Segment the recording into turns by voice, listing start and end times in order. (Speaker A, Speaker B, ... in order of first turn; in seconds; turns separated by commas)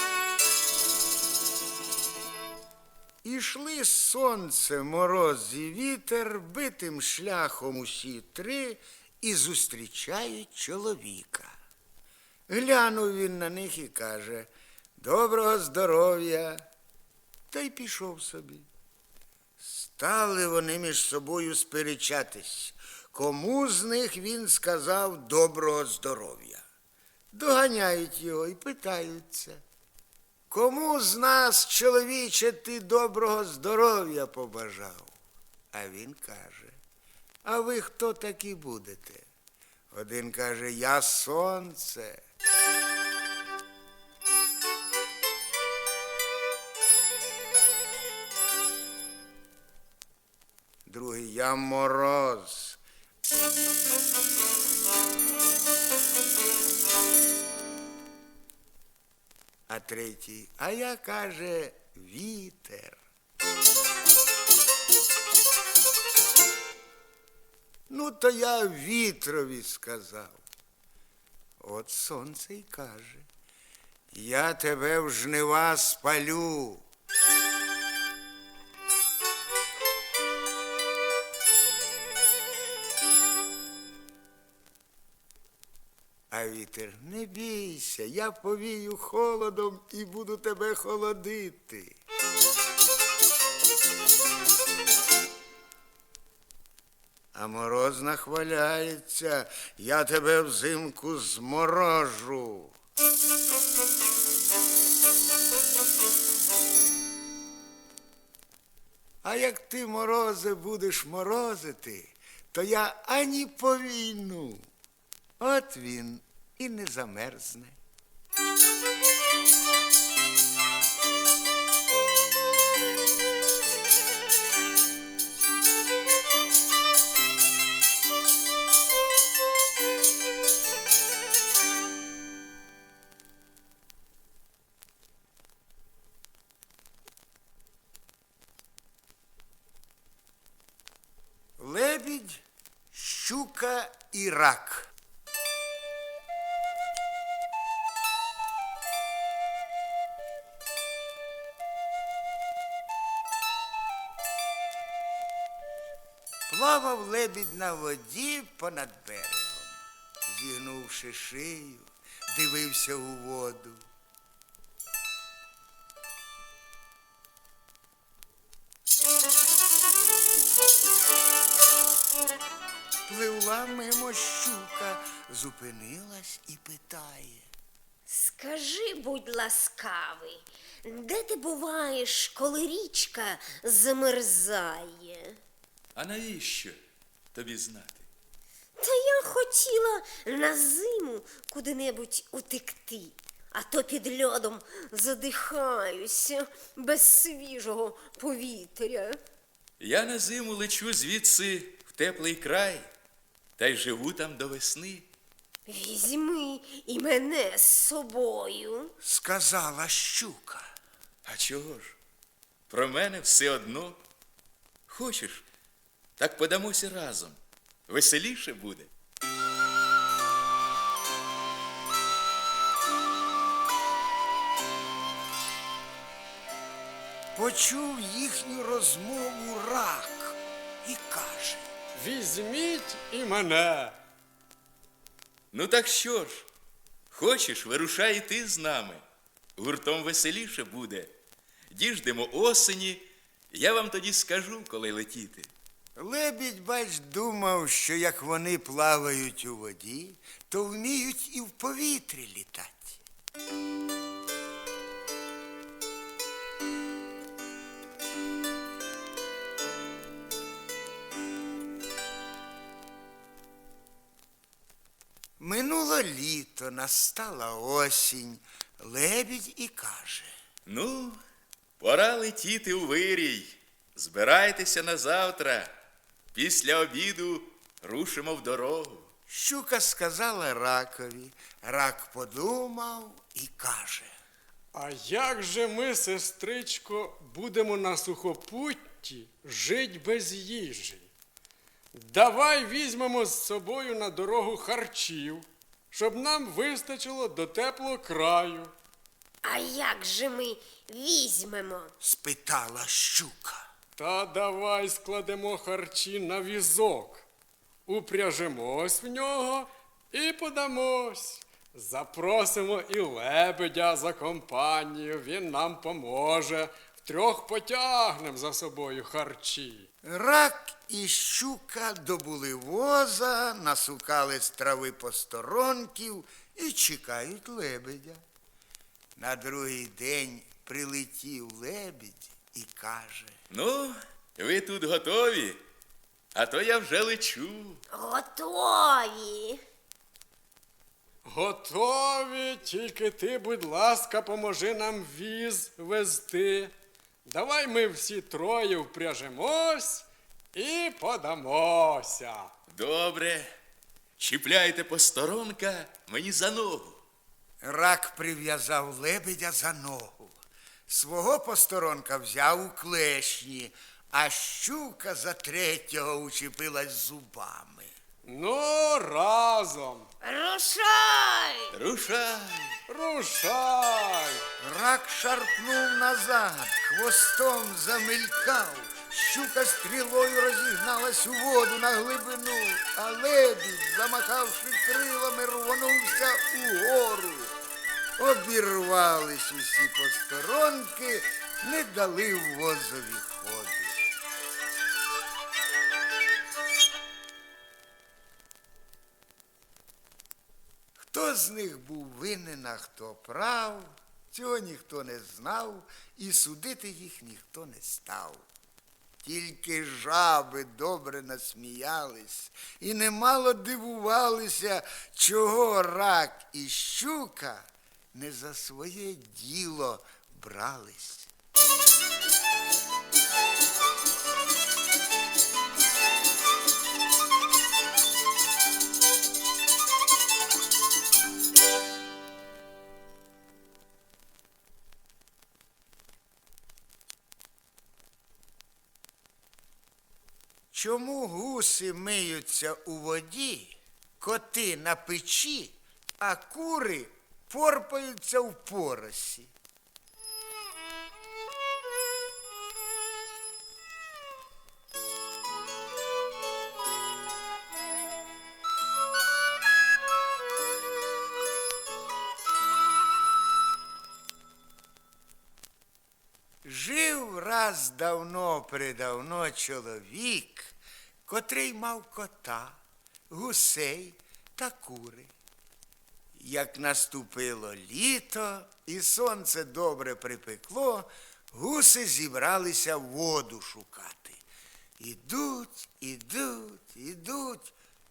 Speaker A: 3.2-11.5, Speaker A: 12.5-16.6, Speaker A: 17.5-18.7, Speaker A: 19.6-26.6, Speaker A: 27.3-29.6, Speaker A: 30.5-35.2, Speaker A: 35.7-36.8, Speaker A: 37.4-39.3, Speaker A: 39.9-42.2, Speaker A: 50.9-52.8, Speaker A: 59.7-63.0, Speaker A: 67.9-70.4, Speaker A: 71.6-73.3, Speaker A: 74.1-76.8, Speaker A: 86.3-92.0, Speaker A: 97.3-102.7, Speaker A: 109.2-114.7, Speaker A: 115.4-117.8, Speaker A: 141.6-142.4, Speaker A: 142.9-144.9, Speaker A: 156.5-163.8, Speaker A: 173.1-177.5, Speaker B: 178.1-185.4, Speaker C: 185.9-186.8, Speaker C: 187.3-188.1, Speaker B: 188.8-199.2, Speaker C: 199.8-202.9, Speaker C: 203.6-205.1, Speaker B: 205.7-208.9, Speaker A: 209.0-210.7, Speaker C: 211.2-211.9, Speaker C: 212.7-214.0, Speaker C: 214.9-215.4, Speaker C: 216.2-218.9, Speaker A: 227.3-231.7, Speaker D: 231.9-233.9, Speaker C: 235.5-236.5, Speaker C: 237.1-239.0, Speaker C: 239.6-241.1, Speaker C: 241.7-245.5, Speaker A: 245.9-253.0, Speaker A: 265.4-270.3, Speaker C: 270.7-271.2, Speaker C: 271.8-275.7, Speaker C: 276.3-279.1, Speaker A: 279.3-284.1, Speaker D: 284.7-291.1, Speaker D: 291.9-298.7, Speaker B: 299.4-301.9, Speaker A: 302.0-303.6, Speaker D: 304.0-307.2, Speaker D: 307.9-319.9, Speaker A: 320.0-328.2, Speaker A: 329.1-333.4, Speaker C: 333.5-335.6, Speaker C: 336.3-337.8, Speaker B: 337.9-339.6, Speaker D: 341.2-346.7, Speaker D: 347.2-352.5, Speaker C: 352.7-353.5, Speaker C: 354.2-357.0, Speaker A: 357.6-360.3, Speaker A: 360.9-367.9, Speaker D: 368.2-370.1, Speaker B: 370.2-371.7, Speaker C: 371.7-372.8, Speaker D: 372.9-374.4, Speaker A: 374.6-387.6, Speaker A: 388.2-394.0, Speaker A: 401.0-408.4, Speaker A: 409.2-421.3, Speaker A: 440.7-449.5, Speaker A: 466.6-475.3, Speaker A: 476.3-484.4, Speaker A: 485.0-487.7